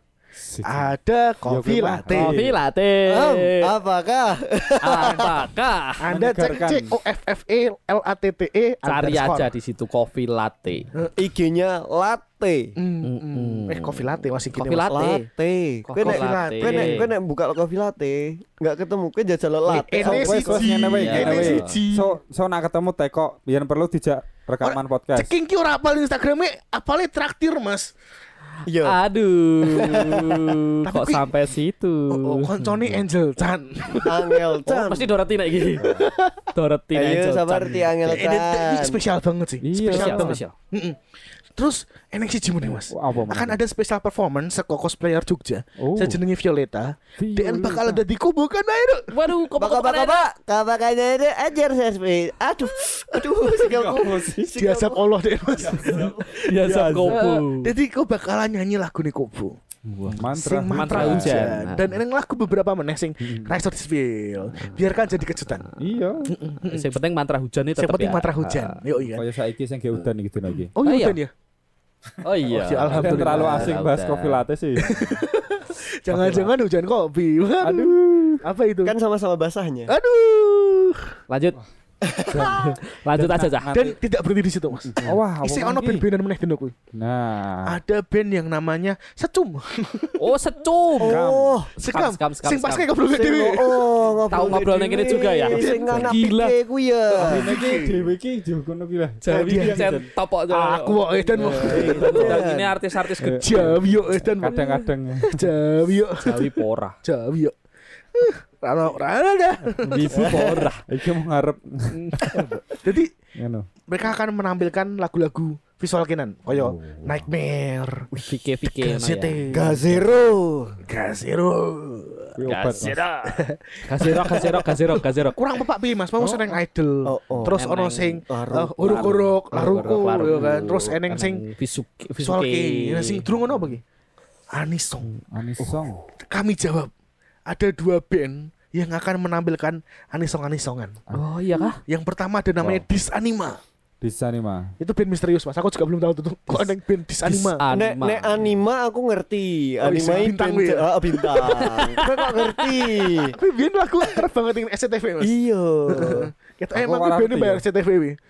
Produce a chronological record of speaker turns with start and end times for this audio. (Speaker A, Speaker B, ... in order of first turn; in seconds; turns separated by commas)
Speaker A: 0.4-0.9, Speaker B: 0.6-2.4, Speaker A: 1.4-2.5, Speaker C: 2.1-3.7, Speaker D: 3.0-5.4, Speaker C: 4.8-6.0, Speaker B: 6.0-9.5, Speaker A: 6.1-6.9, Speaker C: 8.8-10.9, Speaker D: 11.2-12.7, Speaker B: 12.8-15.0, Speaker C: 13.0-15.2, Speaker D: 14.9-21.5, Speaker C: 15.8-17.1, Speaker B: 16.0-17.0, Speaker B: 19.7-22.2, Speaker A: 20.0-25.3, Speaker C: 20.9-21.8, Speaker B: 24.6-27.9, Speaker D: 28.6-29.0, Speaker C: 28.8-32.6, Speaker D: 29.6-30.4, Speaker B: 30.8-31.3, Speaker B: 32.1-34.5, Speaker D: 34.0-35.1, Speaker C: 34.6-38.2, Speaker B: 35.8-36.4, Speaker D: 36.9-39.0, Speaker B: 38.1-41.0, Speaker A: 39.6-40.4, Speaker C: 39.8-40.5, Speaker B: 41.5-49.1, Speaker A: 42.6-43.6, Speaker A: 45.8-46.2, Speaker A: 47.2-48.0, Speaker C: 49.1-50.3, Speaker D: 49.6-55.0, Speaker B: 53.0-53.6, Speaker A: 53.6-54.3, Speaker B: 54.5-65.7, Speaker A: 55.6-57.3, Speaker C: 56.2-57.7, Speaker A: 59.9-61.5, Speaker C: 60.7-62.0, Speaker C: 64.5-64.8, Speaker C: 65.5-65.7, Speaker A: 65.8-66.3, Speaker B: 66.3-66.8, Speaker C: 66.6-68.8, Speaker B: 67.8-69.2, Speaker A: 69.1-70.7, Speaker B: 70.7-71.3, Speaker C: 70.8-71.2, Speaker C: 72.2-74.4, Speaker B: 72.5-73.8, Speaker A: 72.9-75.2, Speaker B: 74.8-78.9, Speaker A: 76.1-76.5, Speaker A: 77.6-78.4, Speaker D: 78.8-79.9, Speaker B: 79.9-81.1, Speaker C: 81.3-81.6, Speaker D: 82.1-82.6, Speaker A: 82.3-84.0, Speaker C: 82.3-83.7, Speaker B: 83.7-86.7, Speaker A: 85.0-86.0, Speaker A: 86.9-87.8, Speaker B: 87.6-90.2, Speaker C: 90.2-91.2, Speaker D: 91.0-91.7, Speaker A: 91.0-91.6, Speaker B: 91.8-93.9, Speaker C: 91.8-92.9, Speaker D: 93.1-97.5, Speaker C: 94.3-96.5, Speaker B: 95.5-96.1, Speaker A: 95.8-96.1, Speaker B: 97.1-98.1, Speaker A: 97.2-100.1, Speaker C: 99.2-103.7, Speaker B: 99.3-102.4, Speaker A: 101.4-102.4, Speaker D: 101.4-102.8, Speaker A: 103.2-105.5, Speaker B: 103.2-107.5, Speaker C: 106.2-107.0, Speaker B: 108.1-110.1, Speaker C: 109.8-110.8, Speaker A: 110.0-112.5, Speaker D: 110.1-110.7, Speaker B: 111.9-113.1, Speaker A: 113.4-113.7, Speaker B: 113.9-118.1, Speaker A: 116.5-117.3, Speaker C: 118.2-119.4, Speaker B: 118.7-119.8, Speaker D: 119.5-120.8, Speaker B: 120.8-122.4, Speaker A: 122.4-123.0, Speaker C: 122.5-125.4, Speaker B: 123.2-131.4, Speaker D: 127.0-127.5, Speaker C: 127.5-128.2, Speaker D: 128.3-129.3, Speaker C: 128.8-133.3, Speaker B: 132.2-133.8, Speaker B: 134.5-135.1, Speaker A: 135.3-136.0, Speaker D: 135.6-135.9, Speaker B: 136.3-136.9, Speaker B: 137.5-141.0, Speaker C: 141.1-141.8, Speaker B: 141.8-143.6, Speaker A: 142.6-142.8, Speaker A: 144.0-144.7, Speaker B: 144.8-147.6, Speaker C: 147.2-148.4, Speaker D: 147.7-153.3, Speaker B: 149.8-151.7, Speaker C: 151.4-152.6, Speaker B: 153.2-155.3, Speaker D: 155.2-156.3, Speaker B: 155.9-158.2, Speaker A: 156.7-157.6